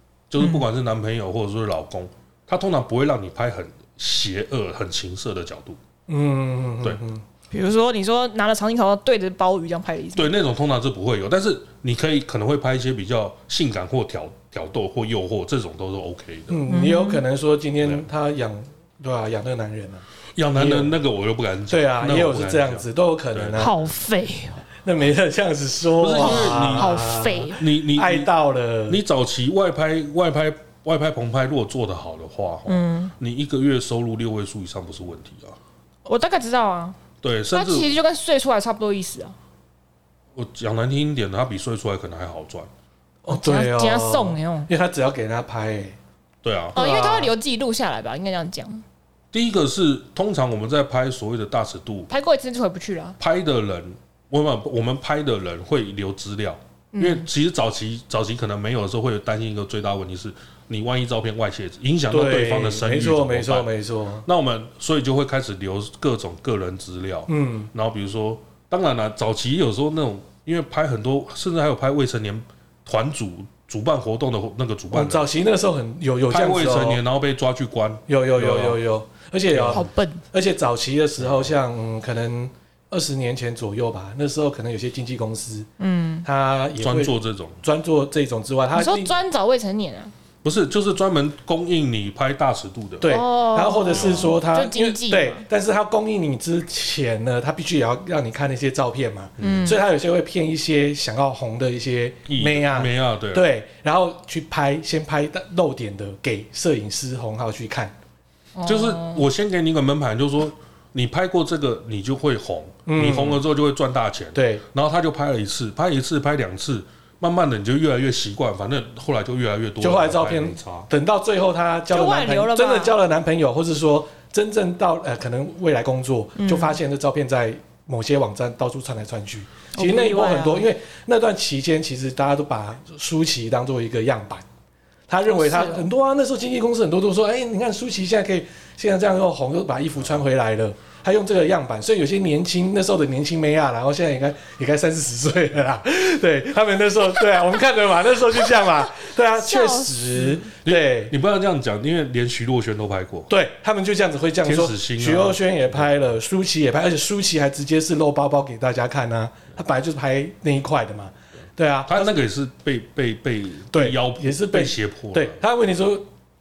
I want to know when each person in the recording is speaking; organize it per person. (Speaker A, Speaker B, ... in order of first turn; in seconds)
Speaker A: 0.3-5.8, 10.2-16.6, 20.4-23.8, 26.0-28.3, 28.9-35.6, 37.2-37.9, 40.4-42.7, 46.4-47.3, 49.3-52.1, 53.2-63.7, 64.2-75.3, 76.3-78.8, 79.5-79.9, 81.2-81.5, 86.8-87.6, 90.4-93.2, 93.9-94.3, 99.4-99.7, 102.3-103.5, 108.7-120.9, 150.6-153.3, 154.4-155.4, 161.9-165.4
Speaker B: 0.4-0.6, 7.5-10.3, 16.7-17.2, 23.6-24.6, 26.2-27.6, 32.7-33.1, 36.1-37.0, 37.5-39.4, 43.3-44.7, 46.8-48.8, 52.1-53.2, 56.9-57.3, 79.7-80.2, 85.8-86.3, 88.8-90.1, 93.0-95.4, 99.4-99.8, 108.6-109.2, 121.9-123.0, 126.4-126.8, 129.8-130.7, 135.4-135.9, 149.4-150.3
Speaker C: 6.1-7.2, 16.5-21.0, 21.7-23.7, 24.8-29.0, 43.2-46.0, 62.1-64.3, 67.3-67.7, 74.9-77.0, 78.1-85.7, 86.2-89.1, 93.0-107.9, 112.9-113.4, 114.3-114.6, 119.8-134.4, 135.1-151.2, 153.3-162.2, 163.7-166.1